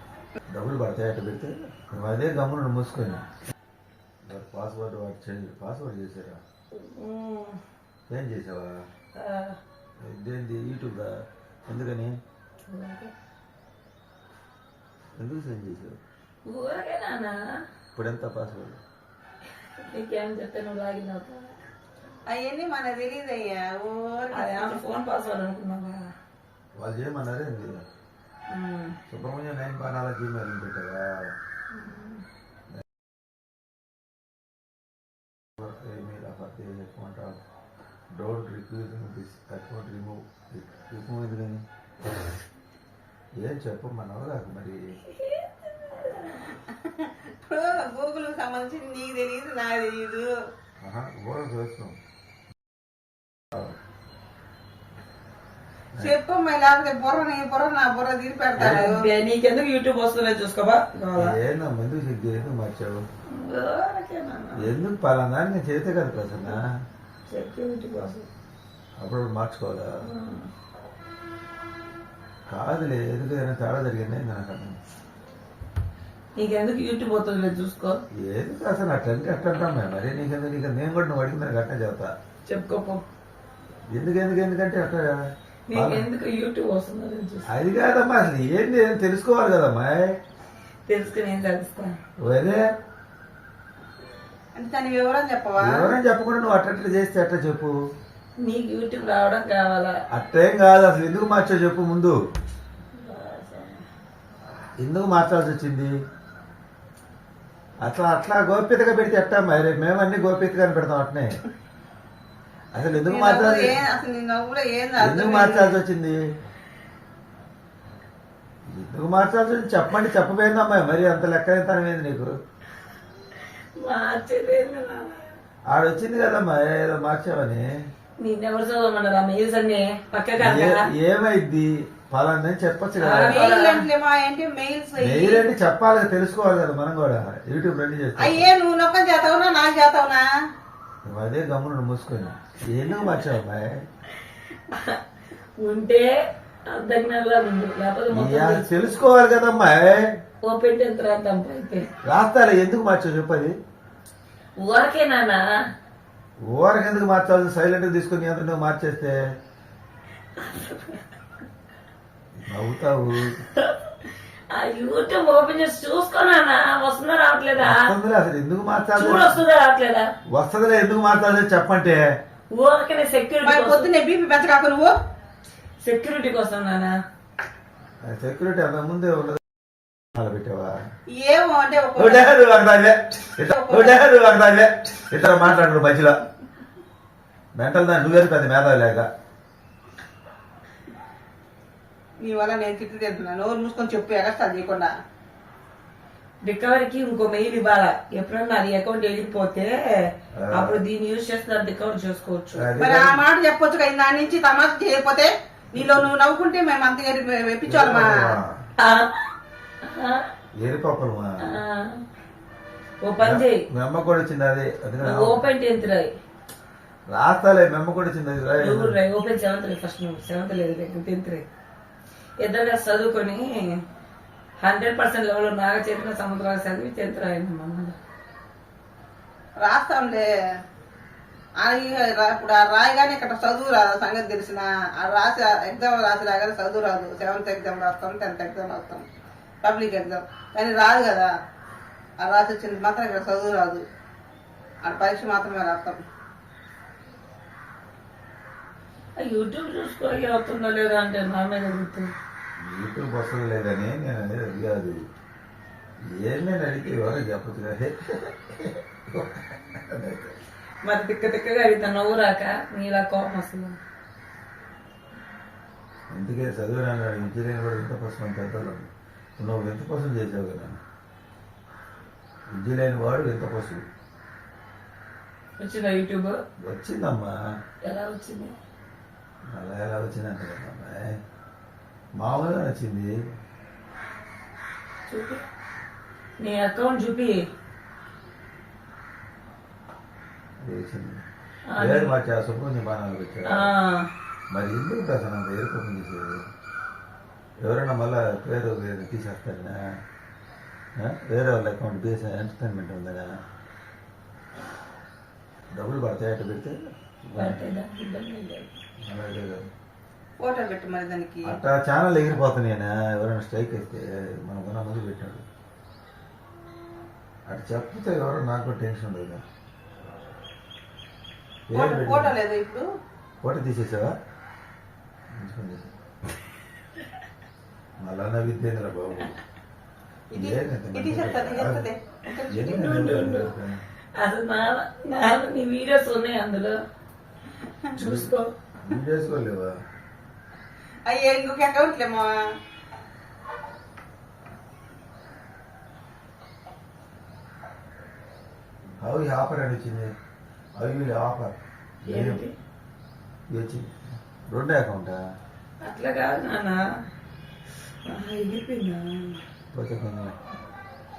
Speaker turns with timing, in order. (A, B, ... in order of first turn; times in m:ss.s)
0:00.5-0:03.3 A
0:04.3-0:06.4 A
0:06.7-0:07.6 B
0:08.1-0:08.8 A
0:09.2-0:09.6 B
0:10.0-0:12.2 A
0:12.7-0:13.1 B
0:15.2-0:16.0 A
0:16.4-0:17.4 B
0:18.0-0:18.8 A
0:19.9-0:21.5 B
0:22.3-0:24.8 C
0:24.3-0:26.0 B
0:26.8-0:27.8 A
0:28.5-0:29.0 B
0:29.1-0:31.3 A
0:31.7-0:32.2 B
0:35.6-0:37.4 A
0:38.1-0:41.6 A
0:43.4-0:44.8 A
0:45.1-0:46.5 B
0:46.5-0:50.3 C
0:50.8-0:52.0 A
0:56.0-0:59.1 C
0:58.6-0:58.9 A
0:58.6-1:01.4 B
1:01.2-1:03.0 A
1:03.3-1:04.6 B
1:04.6-1:06.7 A
1:07.3-1:08.3 B
1:09.0-1:10.0 A
1:10.0-1:10.5 B
1:12.5-1:14.8 A
1:16.4-1:18.0 B
1:18.1-1:22.1 A
1:22.5-1:23.0 B
1:23.9-1:25.2 A
1:25.7-1:27.5 B
1:25.7-1:26.1 A
1:27.5-1:30.2 A
1:30.9-1:32.0 B
1:32.2-1:32.6 A
1:34.6-1:35.9 C
1:35.6-1:37.7 A
1:38.4-1:40.0 B
1:40.1-1:42.2 A
1:43.0-1:43.8 B
1:44.8-1:45.9 A
1:47.8-1:51.3 A
1:52.7-1:53.8 A
1:53.0-1:55.8 C
1:55.0-1:56.2 A
1:58.7-2:02.3 A
2:03.8-2:05.3 B
2:05.7-2:07.7 A
2:08.2-2:10.9 B
2:10.4-2:13.5 A
2:13.0-2:13.9 B
2:13.2-2:15.5 C
2:15.0-2:18.5 A
2:18.2-2:20.3 C
2:21.1-2:23.9 A
2:24.7-2:25.0 B
2:25.6-2:26.2 B
2:26.7-2:28.9 B
2:28.1-2:30.1 A
2:30.4-2:31.9 B
2:32.0-2:33.6 A
2:34.6-2:35.4 B
2:36.5-2:39.2 A
2:40.4-2:41.0 B
2:42.4-2:43.4 A
2:43.5-2:43.9 B
2:44.5-2:47.9 B
2:47.6-2:49.4 A
2:49.0-2:50.1 B
2:50.3-2:52.1 A
2:52.5-2:53.9 B
2:53.4-2:55.0 C
2:55.8-2:57.0 B
2:58.0-2:59.4 A
3:00.1-3:00.8 A
3:01.1-3:02.4 C
3:02.0-3:06.1 A
3:03.5-3:04.0 C
3:07.6-3:09.1 A
3:12.2-3:14.9 C
3:16.4-3:22.7 B
3:20.4-3:20.8 A
3:22.5-3:23.2 A
3:22.8-3:28.3 C
3:25.8-3:26.0 A
3:27.7-3:28.6 A
3:28.8-3:29.2 B
3:29.8-3:30.3 B
3:30.6-3:31.5 A
3:31.4-3:32.0 B
3:33.0-3:33.6 B
3:33.2-3:35.5 A
3:35.0-3:36.1 B
3:37.1-3:39.0 A
3:38.6-3:41.5 B
3:42.4-3:43.8 B
3:44.6-3:48.0 B
3:49.6-3:50.3 C
3:51.6-3:59.0 C
3:59.6-4:01.3 C
4:02.2-4:03.8 C
4:04.8-4:06.0 C
4:09.2-4:12.1 B
4:12.6-4:15.0 A
4:16.1-4:20.4 A
4:20.8-4:23.8 B
4:26.1-4:30.8 A
4:32.5-4:33.8 A
4:35.6-4:36.4 B
4:36.6-4:37.3 A
4:37.8-4:38.6 B
4:39.5-4:41.2 A
4:42.2-4:43.2 A
4:45.1-4:45.4 B
4:46.4-4:47.5 B
4:50.6-4:51.3 A
4:51.7-4:52.1 B
4:51.8-4:53.7 A
4:53.5-4:54.1 B
4:54.5-4:56.4 A
4:57.6-4:59.8 A
5:01.0-5:03.3 A
5:05.7-5:07.7 A
5:07.4-5:08.8 B
5:09.0-5:09.7 A
5:10.4-5:11.6 C
5:11.4-5:15.4 A
5:17.5-5:19.4 A
5:21.7-5:22.3 A
5:21.7-5:22.8 C
5:23.4-5:24.1 A
5:25.4-5:25.9 A
5:28.0-5:29.4 A
5:30.3-5:33.0 C
5:30.4-5:31.9 A
5:32.5-5:33.8 A
5:32.7-5:33.5 B
5:34.2-5:36.8 B
5:38.0-5:38.5 B
5:38.0-5:38.3 A
5:38.8-5:39.8 A
5:41.1-5:42.4 C
5:49.0-5:50.1 A
5:50.8-5:52.4 A
5:52.1-5:52.5 B
5:53.5-5:54.0 A
5:54.5-5:55.2 A
5:55.8-5:56.8 B
5:58.1-5:59.4 B
5:59.7-6:00.4 A